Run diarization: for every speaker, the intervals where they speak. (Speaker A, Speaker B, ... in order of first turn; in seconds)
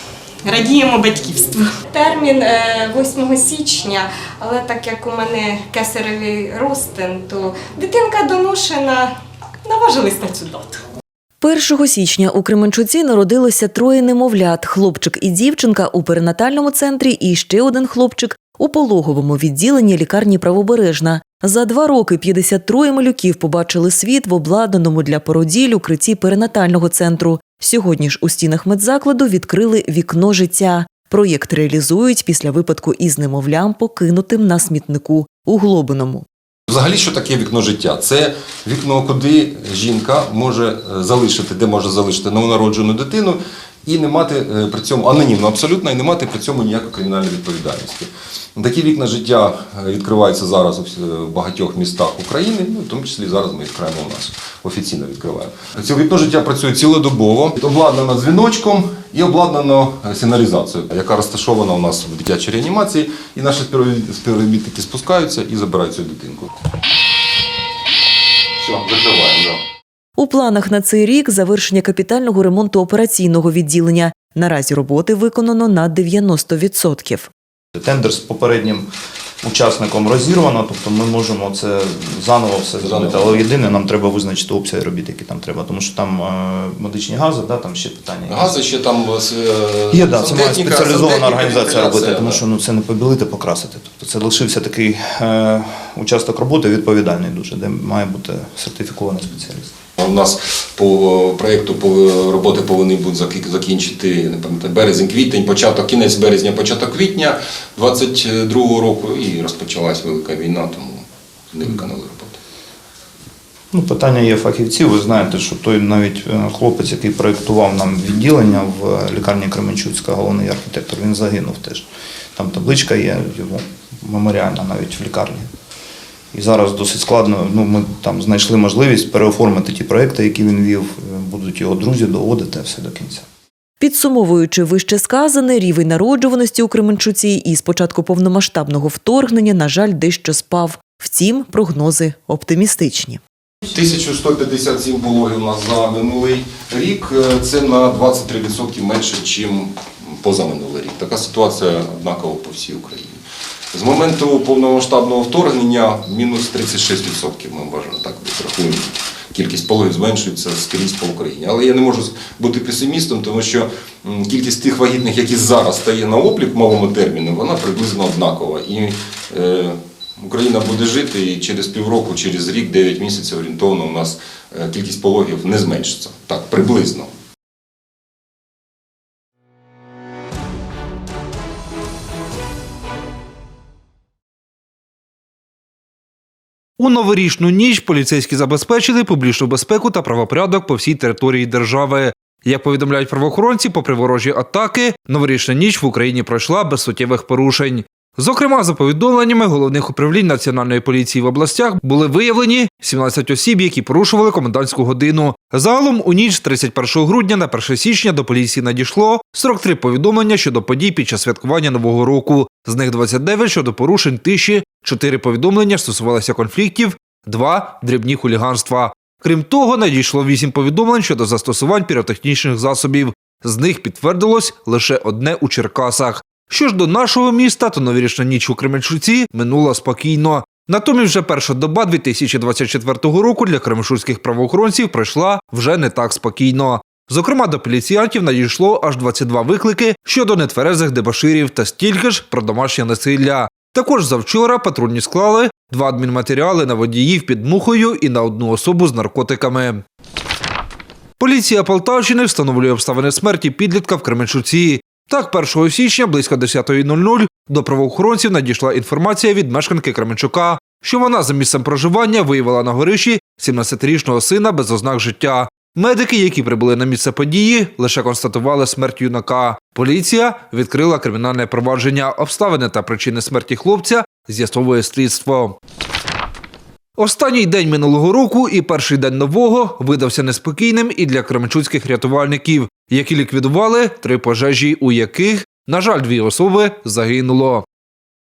Speaker A: 0.4-10.8
Speaker B: 11.4-36.2, 70.2-77.3, 133.8-143.2
Speaker C: 36.7-66.5, 68.6-69.6, 82.8-83.6, 88.2-92.4, 100.0-112.4, 143.7-153.2, 153.7-177.1
Speaker D: 77.8-78.9, 79.4-88.5, 89.9-99.7, 113.7-125.5, 126.3-133.2
Speaker E: 186.8-249.8, 251.2-275.6, 277.0-287.6